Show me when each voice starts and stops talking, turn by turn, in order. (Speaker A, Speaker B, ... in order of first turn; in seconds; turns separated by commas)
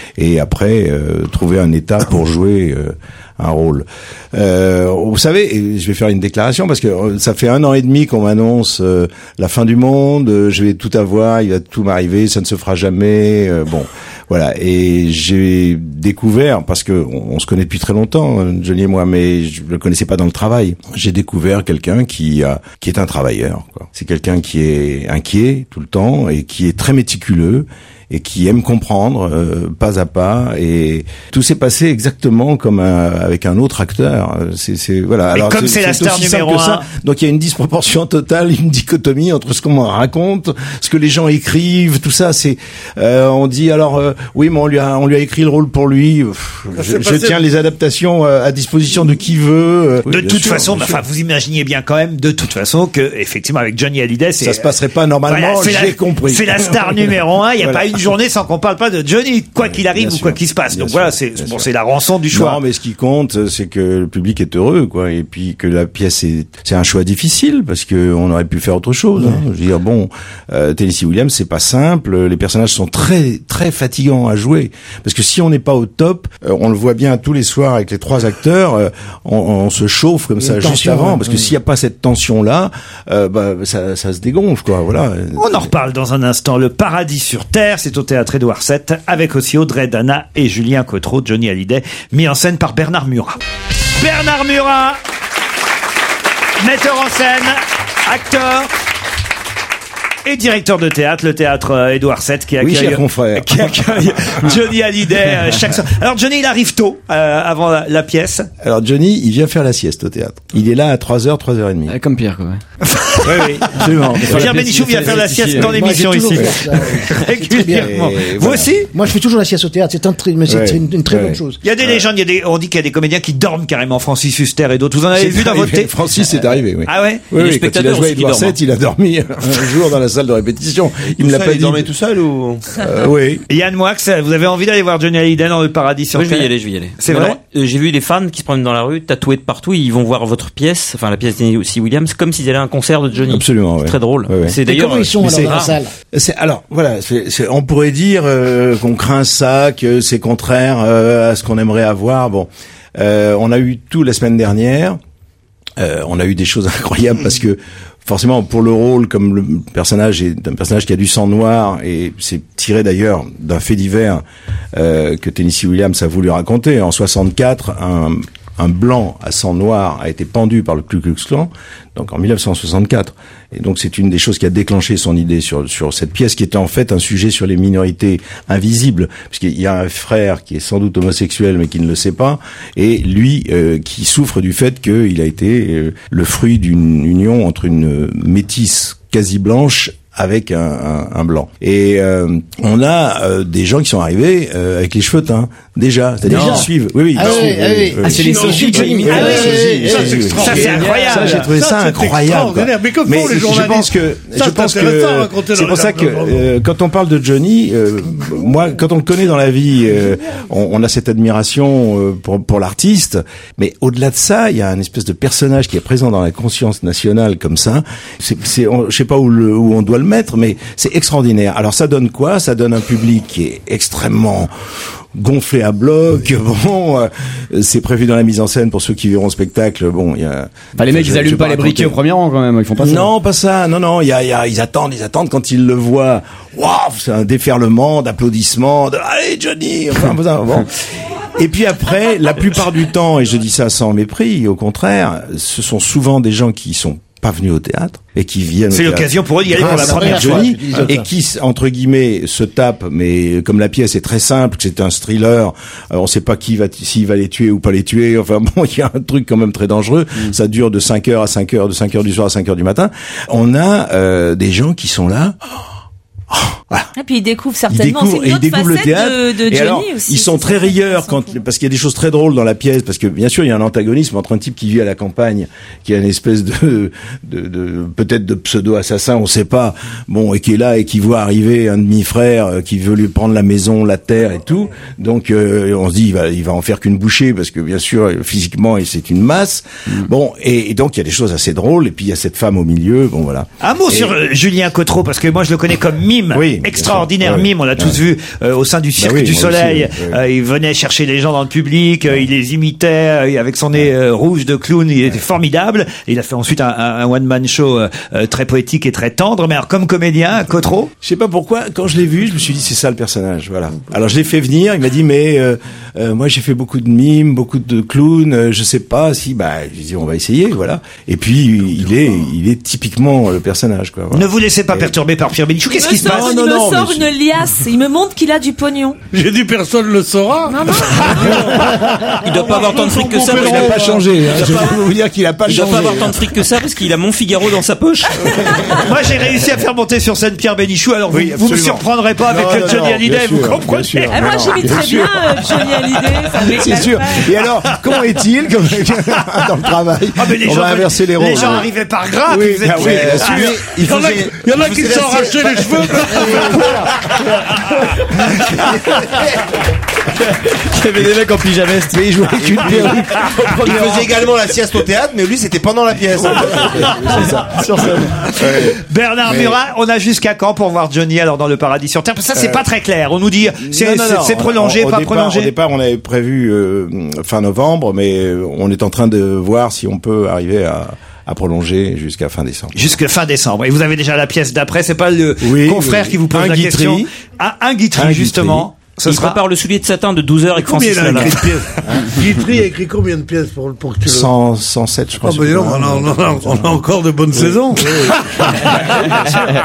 Speaker A: 0.2-51.0, Speaker B: 35.3-36.9, Speaker C: 46.8-47.4, Speaker B: 50.1-54.7, Speaker A: 54.4-58.1, Speaker B: 55.3-62.6, Speaker A: 59.6-61.7, Speaker A: 62.3-85.7, Speaker D: 80.4-81.5, Speaker B: 85.4-93.4, Speaker B: 94.0-95.0, Speaker B: 96.6-98.7, Speaker B: 100.2-108.5, Speaker A: 102.6-104.5, Speaker A: 108.6-112.0, Speaker E: 111.9-112.6, Speaker B: 113.0-118.9, Speaker A: 113.2-114.7, Speaker E: 114.2-115.8, Speaker D: 115.6-117.9, Speaker A: 117.7-118.8, Speaker D: 118.9-121.6, Speaker A: 120.5-122.1, Speaker B: 121.6-125.9, Speaker A: 125.1-131.9, Speaker B: 126.9-127.3, Speaker F: 127.3-128.6, Speaker G: 131.2-132.6, Speaker A: 132.8-133.4, Speaker B: 133.5-137.4, Speaker F: 136.1-145.8, Speaker A: 143.2-144.6, Speaker D: 144.7-145.9, Speaker A: 145.2-145.6, Speaker A: 146.1-155.0, Speaker A: 155.8-164.2, Speaker A: 164.7-224.5, Speaker E: 196.2-196.7, Speaker D: 196.2-200.6, Speaker E: 198.0-201.6, Speaker C: 198.4-198.7, Speaker B: 199.1-199.4, Speaker C: 199.2-206.5, Speaker B: 200.3-201.4, Speaker A: 225.2-232.0, Speaker E: 230.8-233.1, Speaker A: 232.8-240.8, Speaker A: 241.4-265.4, Speaker B: 248.7-250.6, Speaker D: 249.5-251.1, Speaker A: 266.3-266.9, Speaker H: 266.9-271.4, Speaker A: 267.7-294.1, Speaker B: 293.6-310.9, Speaker A: 296.3-298.0, Speaker A: 299.0-300.2, Speaker A: 311.0-324.9, Speaker B: 324.1-326.4, Speaker H: 325.7-329.0, Speaker A: 325.9-327.1, Speaker C: 329.1-334.0, Speaker H: 330.5-331.7, Speaker F: 332.2-334.9, Speaker A: 333.2-336.3, Speaker F: 335.5-338.4, Speaker A: 338.2-339.0, Speaker B: 338.7-344.3, Speaker A: 341.1-345.6, Speaker H: 344.1-347.3, Speaker A: 346.4-351.8, Speaker B: 350.2-353.7, Speaker A: 352.3-359.3, Speaker C: 353.7-356.9, Speaker D: 356.2-356.8, Speaker E: 360.2-364.2, Speaker A: 361.9-363.8, Speaker G: 363.6-367.9, Speaker A: 366.4-369.6, Speaker B: 368.4-375.5, Speaker A: 372.4-372.6, Speaker A: 373.6-382.8, Speaker B: 382.7-389.4, Speaker A: 385.4-386.7, Speaker G: 386.6-387.0, Speaker A: 388.0-388.7, Speaker F: 389.0-391.6, Speaker C: 390.6-394.3, Speaker A: 394.1-398.2, Speaker C: 395.2-399.2